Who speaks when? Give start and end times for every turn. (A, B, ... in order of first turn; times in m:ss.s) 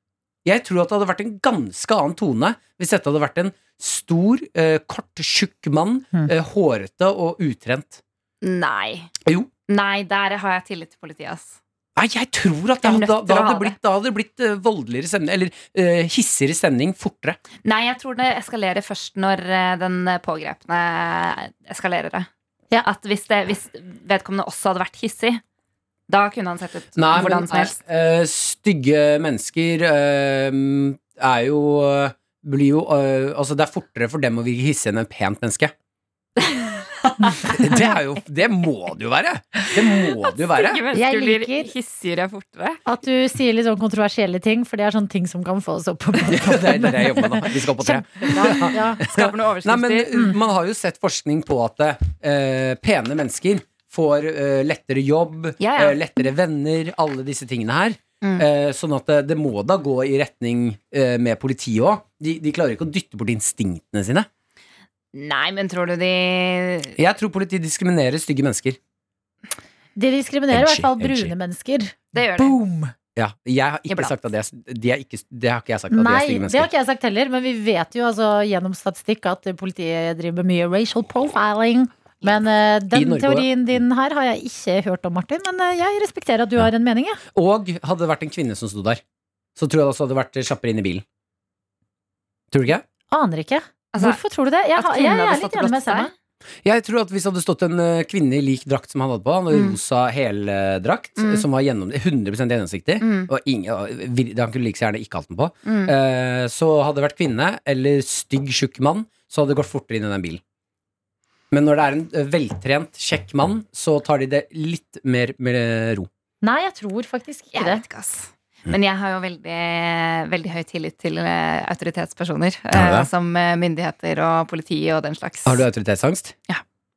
0:00.4-0:08.0 A
0:08.4-0:09.1 B
0:09.7-0:11.6 B
0:12.0-0:17.4 A
0:12.8-0:13.8 B
0:17.6-0:22.3 B
0:22.8-0:25.4 B
0:26.1-0:27.8 B
0:27.0-0:35.7 A
0:36.4-0:36.9 B
0:37.3-0:40.8 A
0:40.4-0:42.8 B
0:40.9-0:41.7 C
0:42.8-0:49.0 C
0:46.2-1:04.3 A
0:49.0-0:50.1 B
0:55.6-0:56.0 B
1:05.1-1:07.0 B
1:07.0-1:08.8 A
1:10.0-1:12.9 C
1:10.5-1:11.3 A
1:12.1-1:12.6 B
1:13.2-1:16.7 A
1:13.9-1:14.1 B
1:15.9-1:27.2 C
1:22.9-1:23.5 A
1:27.3-1:29.0 A
1:29.6-1:31.0 A
1:32.5-1:32.8 A
1:33.1-1:36.1 C
1:33.9-1:34.2 B
1:34.7-1:36.1 B
1:36.6-1:50.4 A
1:39.5-1:39.8 B
1:41.2-1:41.4 B
1:43.0-1:43.3 B
1:45.6-1:45.9 B
1:51.5-1:56.1 A
1:56.4-1:57.8 C
1:57.5-2:05.6 B
2:02.7-2:03.1 A
2:05.4-2:06.3 A